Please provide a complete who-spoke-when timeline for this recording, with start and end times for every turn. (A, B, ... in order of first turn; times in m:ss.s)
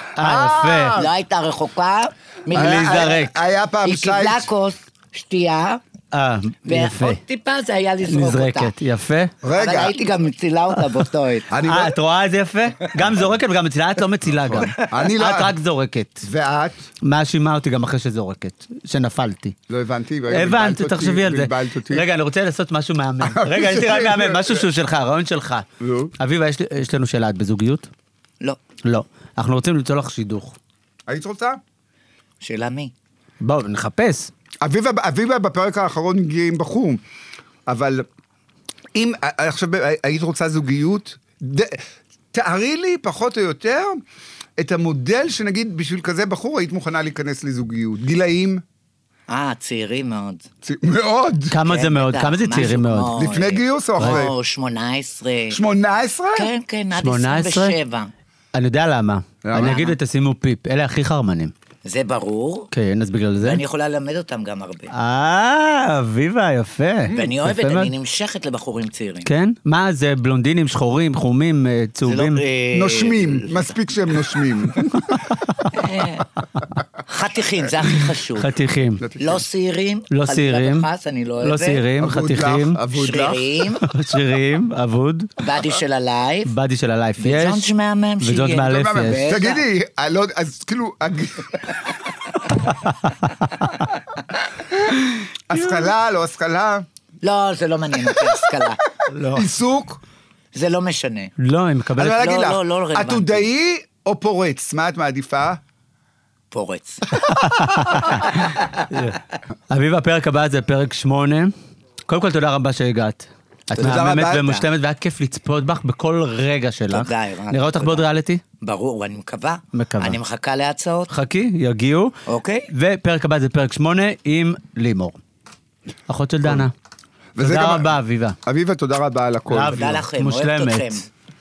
0:00.2-0:01.1 A
0:00.2-0:01.1 B
0:00.9-0:03.3 C
0:02.5-0:03.3 A
0:02.5-0:04.5 B
0:03.8-0:05.8 C
0:06.1-0:07.2 A
0:06.7-0:08.7 C
0:08.1-0:09.3 A
0:09.4-0:10.0 B
0:09.6-0:11.5 C
0:11.5-0:12.0 B
0:11.6-0:16.2 A
0:14.3-0:15.6 B
0:16.2-0:16.8 B
0:17.0-0:19.6 A
0:19.7-0:22.1 B
0:20.3-0:25.7 A
0:23.2-0:24.7 B
0:25.8-0:26.1 B
0:26.2-0:27.9 A
0:28.8-0:30.6 A
0:31.1-0:31.6 B
0:32.4-0:32.9 C
0:33.4-0:34.3 A
0:34.6-0:37.0 B
0:37.7-0:38.1 B
0:39.0-0:44.0 B
0:44.6-0:48.6 B
0:49.3-0:50.5 C
0:50.6-0:51.6 B
0:51.5-0:53.2 A
0:51.6-0:55.6 C
0:53.2-0:54.3 B
0:54.0-0:54.3 A
0:55.5-0:56.5 B
0:56.3-0:58.1 C
0:57.0-0:57.8 A
0:58.5-1:01.5 A
0:59.4-0:59.8 B
0:59.5-1:00.0 C
1:01.8-1:02.7 C
1:02.7-1:03.6 A
1:03.4-1:04.9 C
1:04.9-1:07.9 A
1:07.1-1:09.3 C
1:09.2-1:12.4 A
1:12.0-1:13.8 C
1:12.7-1:15.3 B
1:15.0-1:15.6 A
1:15.7-1:16.3 C
1:17.1-1:18.5 C
1:18.4-1:19.0 A
1:19.0-1:19.4 B
1:19.2-1:21.8 C
1:20.1-1:20.9 A
1:21.4-1:22.8 A
1:22.0-1:23.5 B
1:22.9-1:23.9 C
1:23.8-1:25.3 A
1:25.4-1:26.5 C
1:26.5-1:27.7 A
1:27.2-1:29.6 C
1:28.2-1:29.4 A
1:29.0-1:32.0 B
1:32.7-1:33.1 A
1:34.6-1:35.0 B
1:35.5-1:36.9 B
1:37.2-1:38.8 C
1:39.1-1:39.5 A
1:39.3-1:40.0 B
1:40.5-1:41.3 C
1:41.4-1:42.2 A
1:42.0-1:45.6 B
1:42.0-1:43.4 C
1:46.5-1:47.2 C
1:47.2-1:51.5 A
1:47.9-1:48.8 B
1:52.1-1:58.4 A
1:53.8-1:54.6 B
1:56.9-1:58.1 C
1:58.6-2:01.1 C
1:59.7-2:00.2 A
2:01.1-2:02.2 A
2:02.3-2:02.7 C
2:02.7-2:05.2 A
2:06.1-2:06.7 A
2:07.4-2:09.9 B
2:07.4-2:08.4 A
2:09.5-2:11.0 A
2:09.7-2:11.0 C